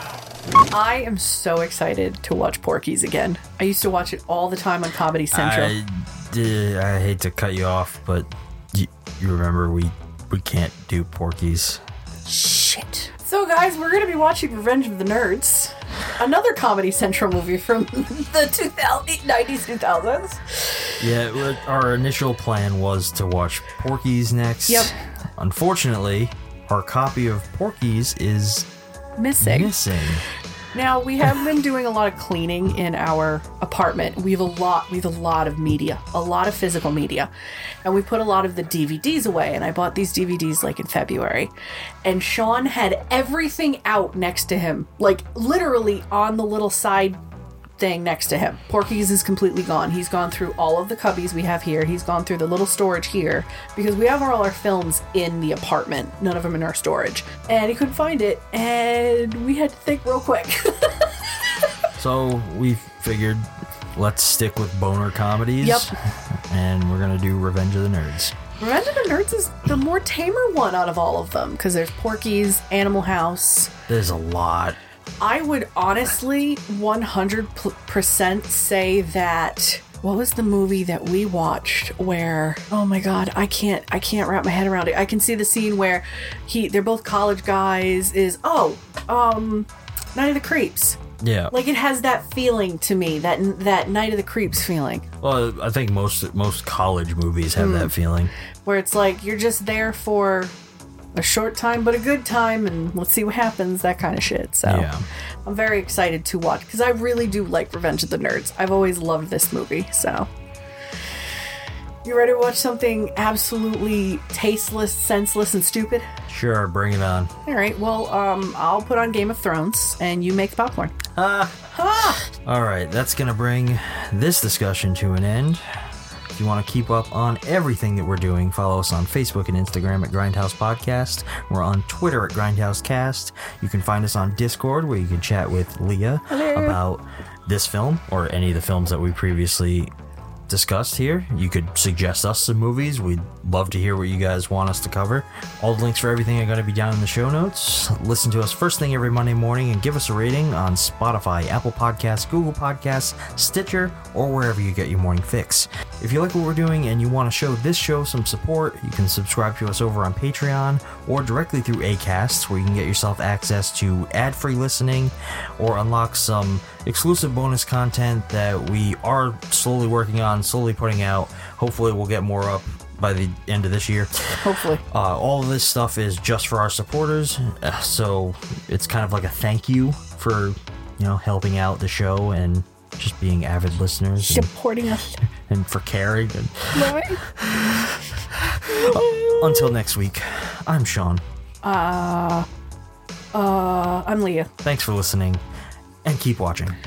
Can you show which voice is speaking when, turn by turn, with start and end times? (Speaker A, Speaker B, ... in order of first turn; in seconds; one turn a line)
Speaker A: 0.7-5.7
Speaker B: 5.3-11.8
Speaker A: 12.3-20.9
Speaker B: 21.0-28.7
Speaker A: 24.7-24.9
Speaker A: 29.2-29.7
Speaker B: 29.4-30.2
Speaker A: 30.7-37.3
Speaker A: 37.8-41.5
Speaker A: 42.0-47.2
Speaker A: 47.8-61.1
Speaker B: 62.0-68.3
Speaker A: 65.6-65.9
Speaker A: 68.6-73.7
Speaker B: 73.9-74.8
Speaker A: 75.2-91.0
Speaker B: 91.2-91.5
Speaker A: 91.5-95.1
Speaker B: 95.2-98.3
Speaker A: 97.6-97.9
Speaker A: 98.7-100.5
Speaker A: 101.2-104.9
Speaker B: 104.7-105.1
Speaker A: 105.5-110.3
Speaker A: 112.0-116.1
Speaker B: 116.3-117.3
Speaker A: 117.5-121.0
Speaker B: 121.2-121.7
Speaker A: 121.7-122.2
Speaker B: 122.3-125.8
Speaker B: 126.3-139.9
Speaker A: 136.3-136.8
Speaker B: 140.5-184.5
Speaker A: 174.4-174.8
Speaker A: 184.2-185.2
Speaker B: 185.5-188.0
Speaker A: 186.7-187.2
Speaker B: 188.7-191.2
Speaker A: 188.7-189.7
Speaker A: 191.6-192.5
Speaker A: 193.3-194.5
Speaker B: 194.6-195.4
Speaker B: 196.0-196.8